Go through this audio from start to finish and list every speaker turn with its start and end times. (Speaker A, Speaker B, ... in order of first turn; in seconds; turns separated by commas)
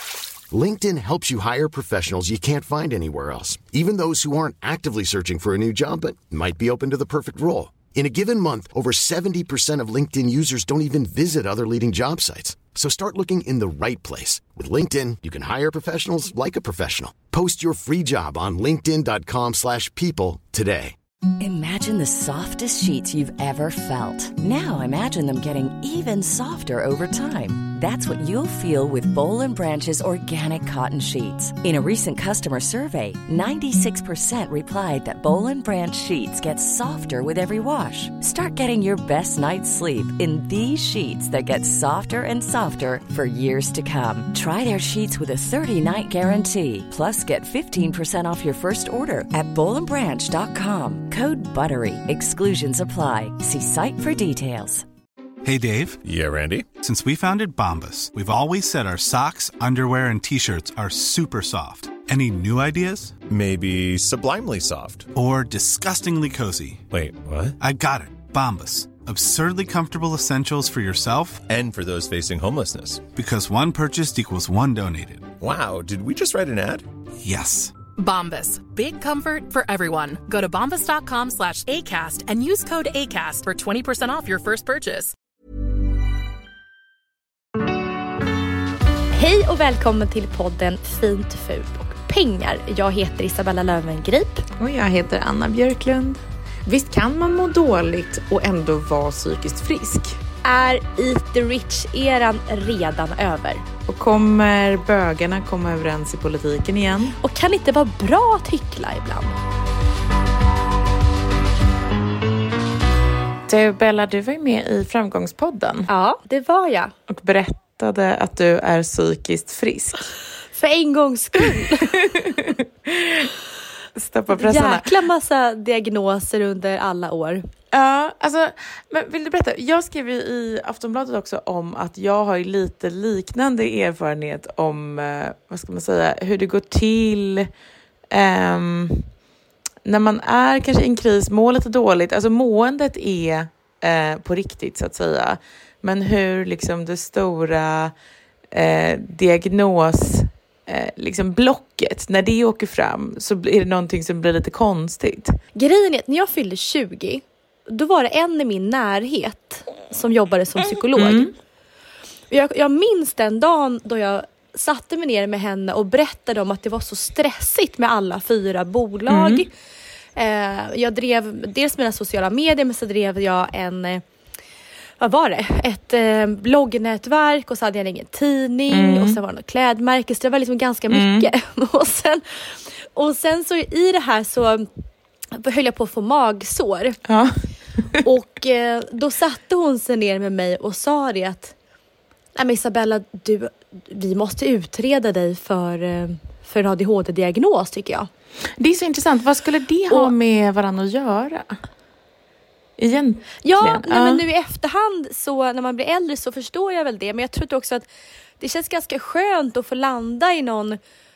Speaker A: 0.5-21.0, Speaker B: 21.4-54.9, Speaker C: 55.4-56.0, Speaker D: 56.0-56.7, Speaker C: 56.8-63.2, Speaker D: 63.3-65.1, Speaker C: 65.1-66.9, Speaker D: 66.9-67.6, Speaker C: 67.6-71.4, Speaker D: 71.5-73.0, Speaker C: 73.1-75.3, Speaker D: 75.4-76.9, Speaker C: 77.2-77.8, Speaker E: 77.9-85.1, Speaker F: 89.1-94.5, Speaker G: 94.6-100.2, Speaker F: 100.4-103.7, Speaker G: 103.9-107.2, Speaker F: 107.2-109.4, Speaker G: 113.5-115.9, Speaker F: 115.9-116.9, Speaker G: 117.1-120.1, Speaker F: 120.5-121.9, Speaker G: 121.6-123.3, Speaker G: 124.0-124.9, Speaker F: 124.3-127.4, Speaker G: 127.7-137.5, Speaker G: 138.1-139.1, Speaker G: 139.8-147.9, Speaker G: 148.5-155.4, Speaker F: 155.6-161.3, Speaker G: 161.0-161.3, Speaker F: 162.3-169.5, Speaker G: 169.1-169.5, Speaker F: 170.2-174.0, Speaker F: 175.0-184.7, Speaker G: 178.7-179.2, Speaker G: 180.9-181.3, Speaker F: 185.4-187.0, Speaker G: 187.1-187.3, Speaker F: 188.0-191.5, Speaker F: 192.3-198.1, Speaker G: 198.6-201.6, Speaker G: 202.8-204.2, Speaker F: 203.4-207.9, Speaker F: 208.4-210.8